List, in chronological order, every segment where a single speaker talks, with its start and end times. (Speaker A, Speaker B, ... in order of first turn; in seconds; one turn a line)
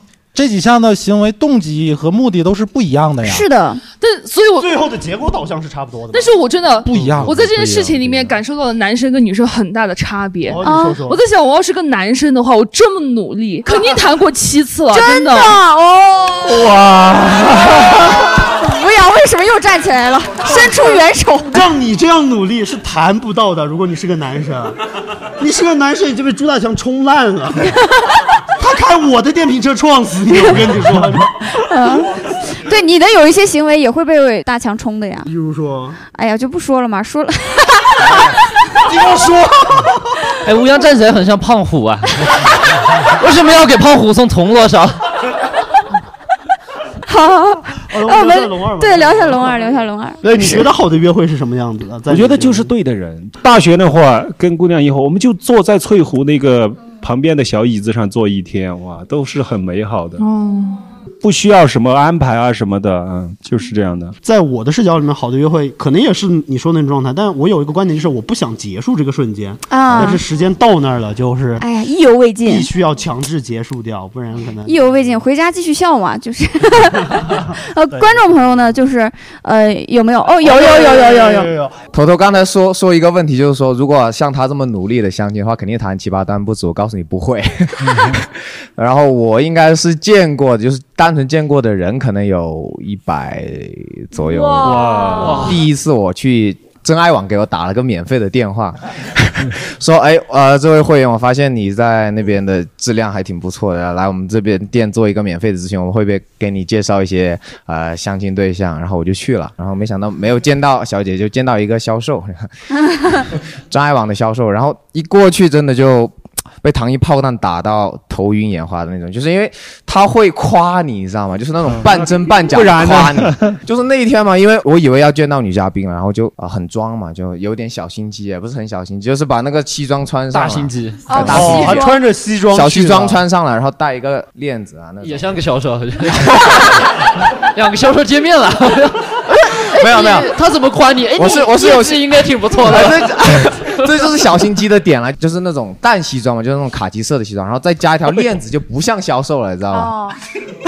Speaker A: 0.3-3.5
Speaker B: 3.2-3.8
Speaker C: 4.0-4.8
Speaker D: 4.6-6.4
Speaker C: 6.1-15.6
Speaker A: 6.8-7.3
Speaker E: 7.1-8.3
Speaker D: 10.4-11.2
Speaker B: 10.6-11.0
Speaker B: 13.7-14.0
Speaker B: 14.9-16.7
Speaker D: 16.5-17.7
Speaker B: 17.6-21.6
Speaker D: 20.5-20.8
Speaker D: 21.5-24.8
Speaker D: 25.4-27.7
Speaker D: 28.6-31.5
Speaker B: 31.5-35.3
Speaker D: 35.2-36.0
Speaker B: 36.1-38.3
Speaker D: 38.7-40.2
Speaker E: 40.4-42.4
Speaker E: 43.0-45.0
Speaker B: 47.1-50.7
Speaker D: 47.9-49.6
Speaker D: 50.2-52.7
Speaker F: 52.1-60.2
Speaker C: 60.2-60.8
Speaker F: 61.2-64.2
Speaker D: 64.2-71.6
Speaker B: 69.7-70.2
Speaker B: 71.6-72.7
Speaker D: 72.4-74.8
Speaker B: 74.7-81.5
Speaker D: 80.4-81.8
Speaker G: 81.9-131.9
Speaker F: 94.6-95.6
Speaker F: 121.8-123.6
Speaker E: 130.3-131.1
Speaker B: 131.1-131.9
Speaker D: 131.2-133.2
Speaker G: 132.5-135.3
Speaker E: 135.0-136.8
Speaker E: 137.5-139.1
Speaker E: 139.7-144.1
Speaker G: 139.8-140.3
Speaker G: 141.2-149.9
Speaker B: 149.7-150.2